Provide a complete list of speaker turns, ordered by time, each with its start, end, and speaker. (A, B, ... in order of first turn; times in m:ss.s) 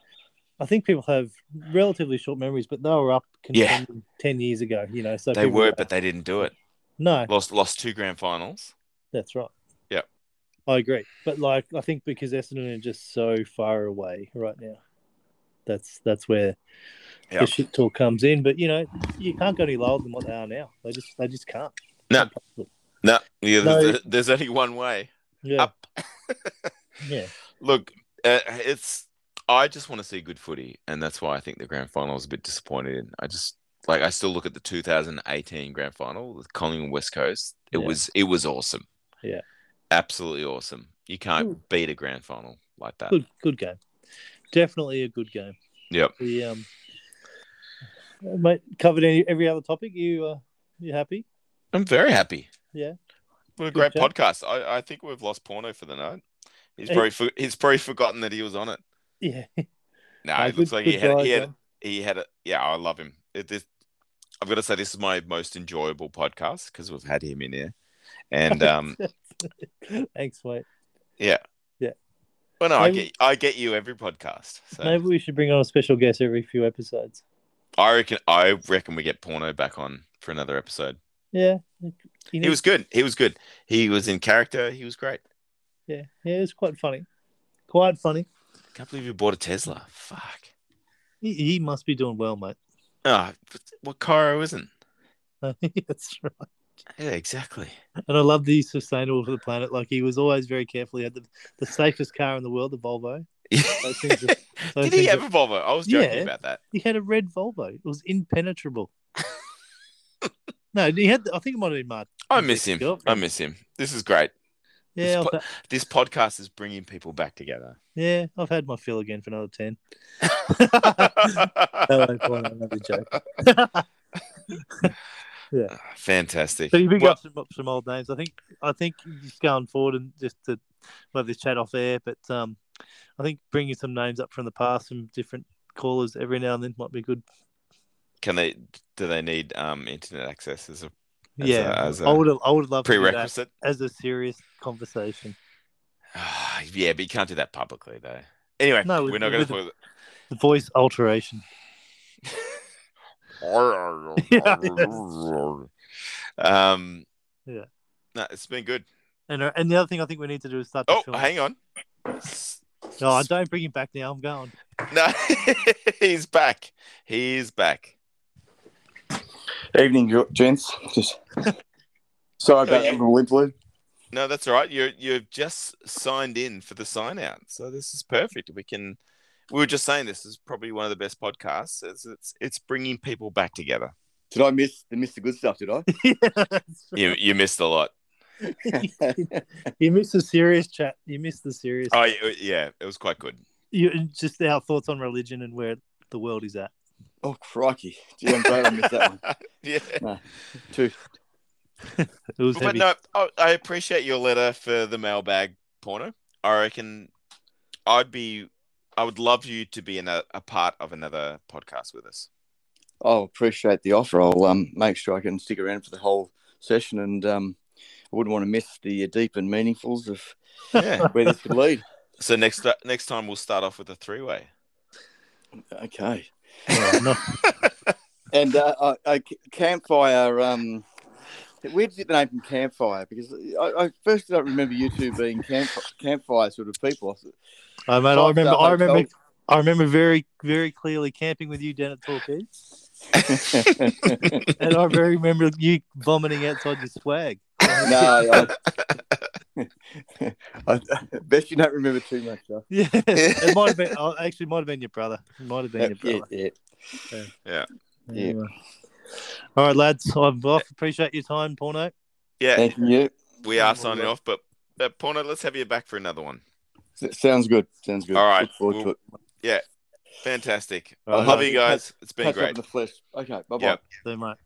0:00.6-0:05.9 A
0:03.5-0:03.8 B
0:05.3-0:06.6 B
0:07.0-0:07.3 A
0:07.3-0:08.7 B
0:09.1-0:09.5 A
0:10.7-0:14.8 A
0:15.7-0:16.6 A
0:17.4-0:22.7 A
0:23.0-0:26.7 B
0:23.6-0:24.0 A
0:25.4-0:25.7 A
0:27.0-0:27.3 A
0:27.6-0:38.8 B
0:37.7-0:38.0 A
0:39.9-0:43.2 B
0:43.1-0:43.8 A
0:44.5-0:45.6 A
0:46.2-0:46.7 A
0:48.2-0:51.3 A
0:51.7-0:52.5 B
0:53.6-0:56.2 B
0:53.7-0:54.1 A
0:56.8-0:58.8 B
0:59.2-0:59.7 A
1:00.2-1:03.7 B
1:00.4-1:01.5 A
1:04.4-1:07.7 B
1:08.3-1:09.0 B
1:08.5-1:10.7 A
1:12.6-1:15.0 B
1:12.8-1:13.1 A
1:14.8-1:17.2 A
1:17.8-1:21.0 B
1:21.3-1:22.6 A
1:22.4-1:25.2 B
1:25.9-1:27.1 A
1:27.7-1:28.3 A
1:28.8-1:30.5 B
1:31.2-1:32.6 A
1:33.0-1:34.7 B
1:35.4-1:36.5 A
1:37.0-1:37.8 B
1:38.1-1:45.2 A
1:43.5-1:46.6 B
1:45.9-1:48.9 A
1:50.7-1:53.2 A
1:52.3-1:54.3 B
1:55.0-1:55.4 A
1:55.0-1:57.8 B
1:58.0-2:03.9 A
2:00.8-2:02.5 B
2:04.5-2:04.9 A
2:05.8-2:07.2 B
2:06.7-2:10.6 A
2:11.1-2:12.6 A
2:13.2-2:17.2 A
2:18.2-2:22.2 B
2:21.4-2:25.4 A
2:22.8-2:23.5 B
2:26.2-2:29.7 B
2:28.8-2:29.6 A
2:30.3-2:31.4 A
2:32.3-2:32.6 B
2:33.4-2:35.7 B
2:34.2-2:34.9 A
2:36.4-2:37.1 B
2:38.1-2:38.9 B
2:39.3-2:41.3 A
2:40.9-2:41.6 B
2:42.2-2:43.3 B
2:43.0-2:44.6 A
2:44.9-2:47.9 B
2:49.7-2:51.2 C
2:52.4-2:53.6 C
2:52.6-2:53.0 B
2:54.1-2:59.0 B
2:59.5-3:03.9 B
3:04.3-3:05.9 C
3:05.9-3:07.1 A
3:07.0-3:07.9 B
3:08.6-3:09.4 C
3:08.6-3:12.0 A
3:11.9-3:13.4 B
3:13.7-3:16.7 A
3:17.2-3:19.2 C
3:18.3-3:20.0 B
3:20.7-3:21.0 C
3:22.0-3:22.9 A
3:22.5-3:27.1 B
3:27.9-3:32.3 B
3:33.0-3:37.6 C
3:38.1-3:40.4 C
3:40.8-3:41.1 B
3:41.0-3:41.8 C
3:42.2-3:44.5 B
3:45.7-3:46.3 C
3:46.7-3:47.2 A
3:47.4-3:47.9 B
3:48.3-3:50.8 C
3:51.6-3:57.3 C
3:57.9-4:02.7 A
3:58.1-3:59.1 C
4:03.2-4:04.5 C
4:04.6-4:08.5 A
4:07.8-4:08.6 C
4:08.3-4:09.2 B
4:09.6-4:12.7 C
4:12.7-4:16.3 A
4:13.2-4:13.8 B
4:15.8-4:17.0 C
4:18.1-4:18.5 A
4:19.6-4:21.9 A
4:22.4-4:22.7 B
4:22.6-4:24.1 C
4:23.4-4:26.4 B
4:27.0-4:29.0 C
4:28.1-4:29.6 B
4:30.2-4:32.6 B
4:31.1-4:31.8 A
4:31.1-4:33.8 C
4:34.0-4:34.4 A